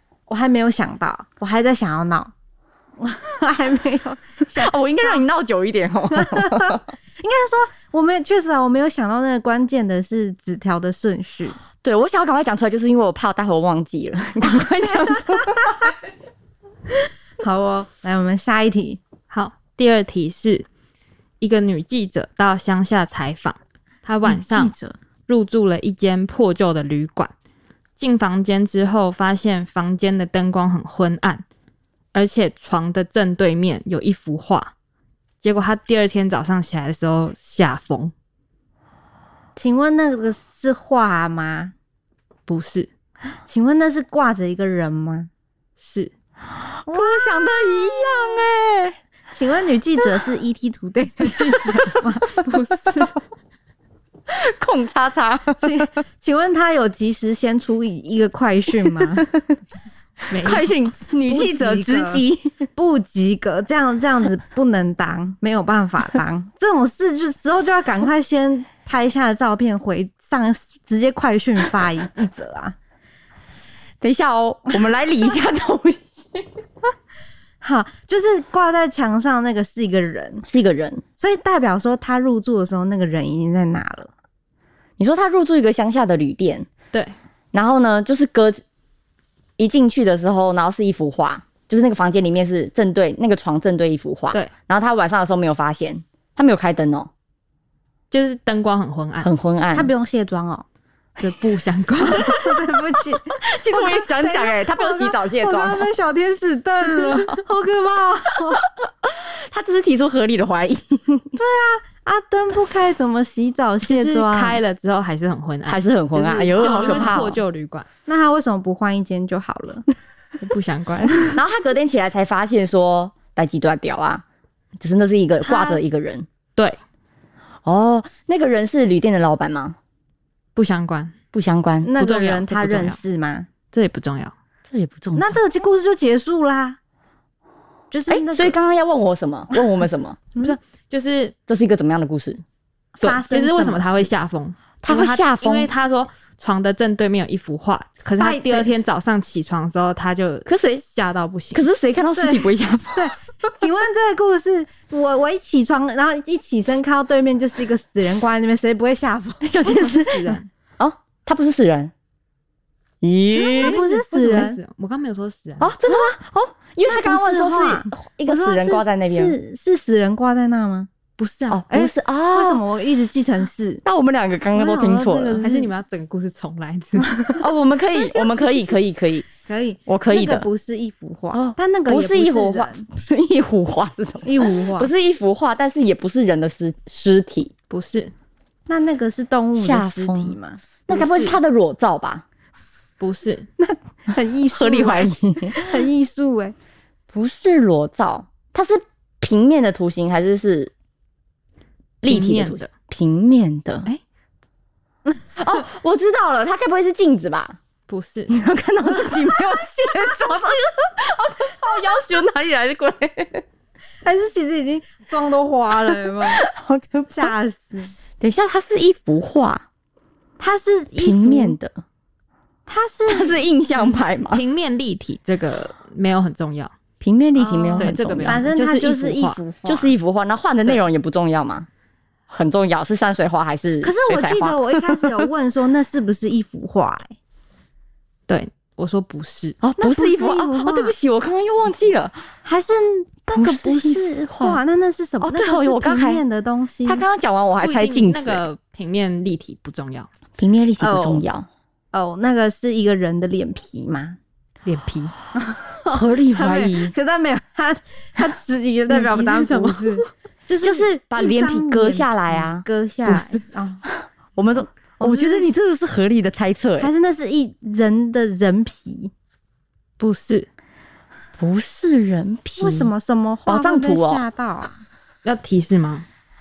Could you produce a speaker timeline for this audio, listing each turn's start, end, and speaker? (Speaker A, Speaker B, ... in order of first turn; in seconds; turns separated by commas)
Speaker A: 0.3-2.3, Speaker A: 3.0-5.2, Speaker B: 4.5-6.9, Speaker A: 6.2-11.6, Speaker B: 11.8-15.9, Speaker A: 17.4-19.0, Speaker C: 19.3-20.6, Speaker C: 21.4-24.7, Speaker A: 24.2-24.9, Speaker C: 25.3-27.3, Speaker C: 28.0-31.4, Speaker C: 32.1-34.7, Speaker C: 35.4-38.1, Speaker A: 39.5-41.7, Speaker C: 42.5-42.9, Speaker A: 43.5-45.3, Speaker C: 45.8-46.1, Speaker B: 46.9-49.0, Speaker A: 46.9-47.2, Speaker A: 49.3-52.5, Speaker B: 51.5-52.0, Speaker C: 52.3-53.1, Speaker B: 54.3-55.8, Speaker A: 55.6-59.3, Speaker B: 58.9-59.5, Speaker C: 60.3-60.7, Speaker B: 60.3-62.5, Speaker A: 61.3-62.2, Speaker A: 62.8-72.7, Speaker B: 74.0-76.5, Speaker A: 77.6-80.5, Speaker B: 80.5-81.0, Speaker A: 81.2-84.1, Speaker B: 85.0-86.7, Speaker B: 87.5-88.6, Speaker B: 89.6-97.1, Speaker C: 98.1-99.3, Speaker B: 99.2-99.9, Speaker A: 99.7-100.7, Speaker C: 101.2-102.6, Speaker A: 102.1-108.6, Speaker B: 103.3-105.9, Speaker B: 107.0-107.4, Speaker B: 108.8-111.3, Speaker A: 111.3-114.6, Speaker C: 113.8-117.9, Speaker B: 115.7-117.4, Speaker A: 116.5-117.2, Speaker A: 118.0-119.8, Speaker C: 120.4-121.4, Speaker B: 121.3-124.2, Speaker B: 124.8-126.3, Speaker B: 127.6-129.8, Speaker C: 130.5-131.1, Speaker B: 131.3-131.9, Speaker A: 131.8-133.5, Speaker C: 132.0-133.0, Speaker C: 133.7-134.3, Speaker B: 134.7-135.4, Speaker A: 135.1-136.8, Speaker A: 137.9-138.5, Speaker B: 138.1-140.2, Speaker C: 140.4-141.3, Speaker B: 141.5-142.4, Speaker A: 143.0-144.1, Speaker C: 143.0-151.6, Speaker B: 144.8-145.7, Speaker A: 148.2-148.7, Speaker B: 150.4-150.8, Speaker B: 151.5-153.2, Speaker A: 152.1-160.1, Speaker B: 159.4-161.9, Speaker C: 159.7-160.5, Speaker B: 163.0-163.8, Speaker A: 163.4-164.6, Speaker C: 163.5-165.7, Speaker B: 165.6-169.3, Speaker A: 165.9-166.1, Speaker A: 166.8-170.9, Speaker C: 171.2-171.6, Speaker B: 171.5-172.6, Speaker A: 171.7-173.8, Speaker B: 173.8-175.4, Speaker A: 174.5-175.7, Speaker C: 175.4-177.4, Speaker B: 177.4-179.3, Speaker A: 179.4-182.9, Speaker B: 179.9-180.5, Speaker B: 181.3-187.5, Speaker A: 184.2-184.9, Speaker C: 187.7-188.1, Speaker A: 188.7-190.6, Speaker B: 189.6-190.3, Speaker B: 190.9-192.2, Speaker C: 190.9-191.4, Speaker C: 193.0-193.5, Speaker A: 193.6-196.5, Speaker B: 194.5-195.8, Speaker B: 197.1-200.7, Speaker B: 202.0-203.9, Speaker C: 202.0-202.7, Speaker B: 205.4-207.6, Speaker C: 207.9-208.3, Speaker B: 208.3-213.4, Speaker A: 214.0-216.4, Speaker B: 215.9-217.3, Speaker A: 217.1-217.9, Speaker B: 218.2-219.6, Speaker A: 220.4-221.6, Speaker B: 221.0-221.8, Speaker A: 222.7-223.4, Speaker B: 223.1-224.4, Speaker C: 224.3-226.7, Speaker B: 227.0-228.4, Speaker A: 227.4-229.9, Speaker C: 227.8-229.4, Speaker B: 229.7-231.7, Speaker B: 232.3-235.2, Speaker A: 233.8-237.1, Speaker C: 238.3-239.6, Speaker B: 239.6-242.2, Speaker A: 239.8-240.9, Speaker A: 242.4-247.0, Speaker B: 243.3-244.6, Speaker B: 245.2-246.2, Speaker B: 246.8-248.4, Speaker C: 247.6-250.1, Speaker B: 250.4-251.5, Speaker A: 250.8-251.2, Speaker A: 251.9-254.2, Speaker C: 254.6-255.1, Speaker A: 255.3-263.8, Speaker B: 255.9-256.9, Speaker C: 258.9-260.1, Speaker B: 260.6-262.6, Speaker C: 263.1-263.4, Speaker B: 264.4-266.9, Speaker A: 265.0-265.5, Speaker A: 266.8-269.1, Speaker C: 270.0-270.5, Speaker B: 271.4-272.9, Speaker A: 272.6-274.8, Speaker B: 273.4-274.2, Speaker C: 275.2-276.1